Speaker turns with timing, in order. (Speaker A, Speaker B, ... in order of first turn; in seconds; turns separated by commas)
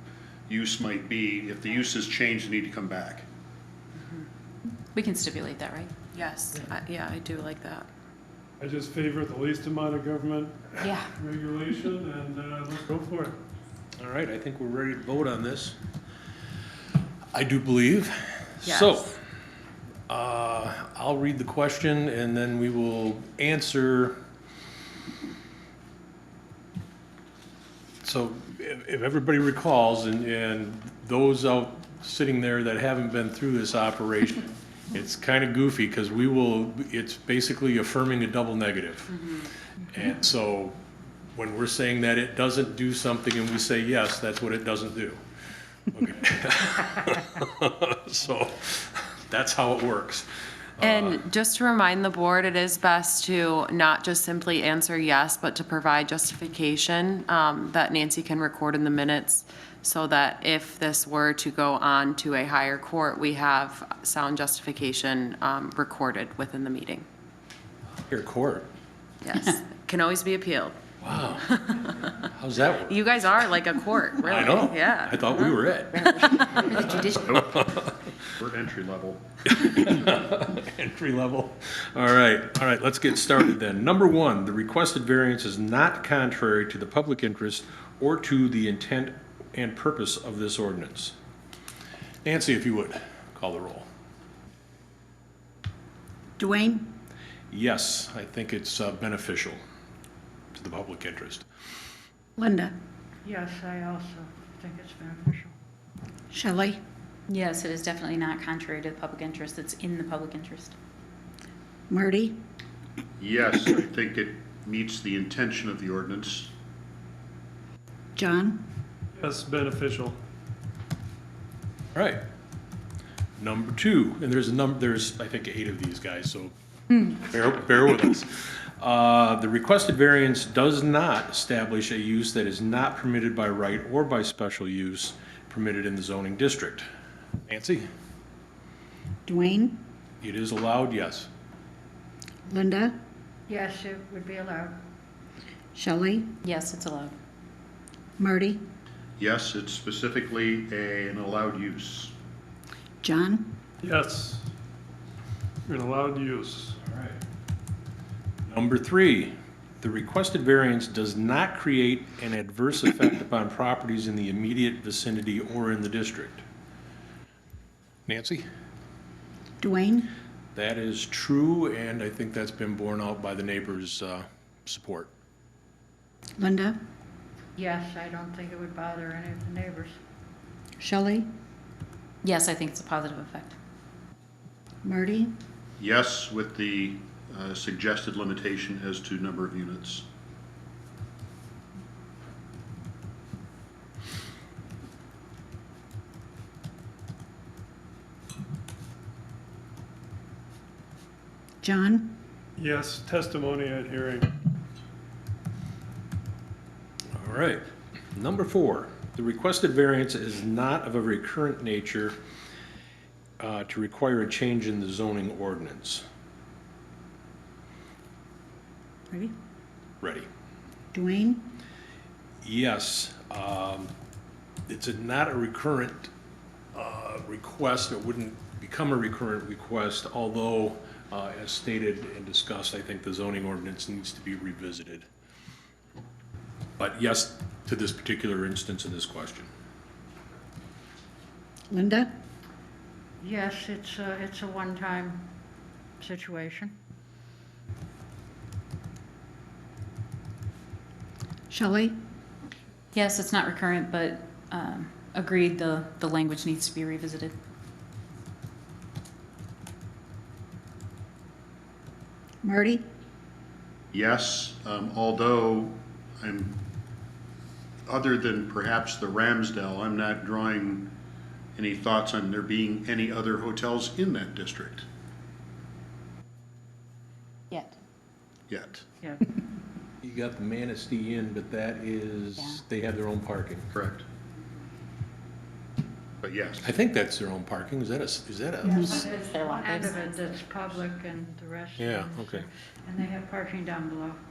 Speaker A: 0.5-3.2, Speaker B: 4.9-5.9, Speaker C: 6.1-7.8, Speaker D: 8.6-13.4, Speaker B: 10.8-11.1, Speaker E: 14.0-15.8, Speaker E: 17.3-19.2, Speaker C: 18.6-19.0, Speaker E: 20.1-24.2, Speaker E: 28.0-39.1, Speaker E: 39.9-40.8, Speaker E: 41.3-45.2, Speaker E: 45.9-50.2, Speaker E: 50.8-51.2, Speaker C: 50.8-67.0, Speaker E: 68.0-68.7, Speaker C: 69.2-70.8, Speaker E: 71.0-71.5, Speaker C: 71.5-72.1, Speaker E: 72.2-73.0, Speaker C: 72.9-75.5, Speaker E: 74.2-77.9, Speaker B: 76.5-77.4, Speaker A: 77.3-77.6, Speaker A: 78.4-79.2, Speaker E: 79.5-91.1, Speaker E: 92.2-93.9, Speaker F: 96.4-96.9, Speaker E: 97.5-99.6, Speaker E: 100.5-101.5, Speaker F: 102.4-102.7, Speaker G: 103.2-105.5, Speaker F: 106.3-106.8, Speaker B: 107.3-110.8, Speaker F: 111.9-112.4, Speaker A: 113.2-116.5, Speaker F: 118.2-118.6, Speaker D: 119.1-120.2, Speaker E: 121.9-122.2, Speaker E: 123.4-136.8, Speaker E: 137.5-137.8, Speaker F: 139.2-139.8, Speaker E: 140.2-141.3, Speaker F: 142.5-142.9, Speaker G: 143.5-144.8, Speaker F: 145.7-146.3, Speaker B: 146.4-147.1, Speaker F: 148.2-148.6, Speaker A: 149.2-152.1, Speaker F: 153.0-153.6, Speaker D: 153.8-154.4, Speaker D: 155.6-156.8, Speaker E: 156.8-157.2, Speaker E: 158.5-166.4, Speaker E: 168.1-168.4, Speaker F: 169.6-170.1, Speaker E: 170.5-175.1, Speaker F: 176.4-176.8, Speaker G: 177.6-179.9, Speaker F: 180.8-181.3, Speaker B: 182.2-183.6, Speaker F: 184.8-185.3, Speaker A: 185.8-190.1, Speaker F: 201.6-202.1, Speaker D: 202.6-204.3, Speaker E: 207.1-207.6, Speaker E: 208.1-212.2, Speaker E: 213.4-216.0, Speaker E: 220.0-220.3, Speaker F: 220.9-221.6, Speaker E: 222.4-223.9, Speaker E: 224.7-226.1, Speaker E: 226.7-235.1, Speaker E: 236.8-239.5, Speaker F: 241.7-242.1, Speaker G: 243.2-245.3, Speaker G: 246.0-246.7, Speaker F: 251.5-251.9, Speaker B: 252.9-257.3, Speaker F: 262.4-262.8, Speaker A: 263.9-266.6, Speaker A: 267.9-270.9, Speaker A: 271.6-274.9, Speaker B: 277.5-277.8, Speaker A: 278.5-278.8, Speaker E: 280.0-283.7, Speaker B: 282.4-282.6, Speaker A: 283.7-284.0, Speaker A: 286.2-286.8, Speaker E: 286.6-289.0, Speaker G: 288.6-294.2, Speaker E: 291.8-292.4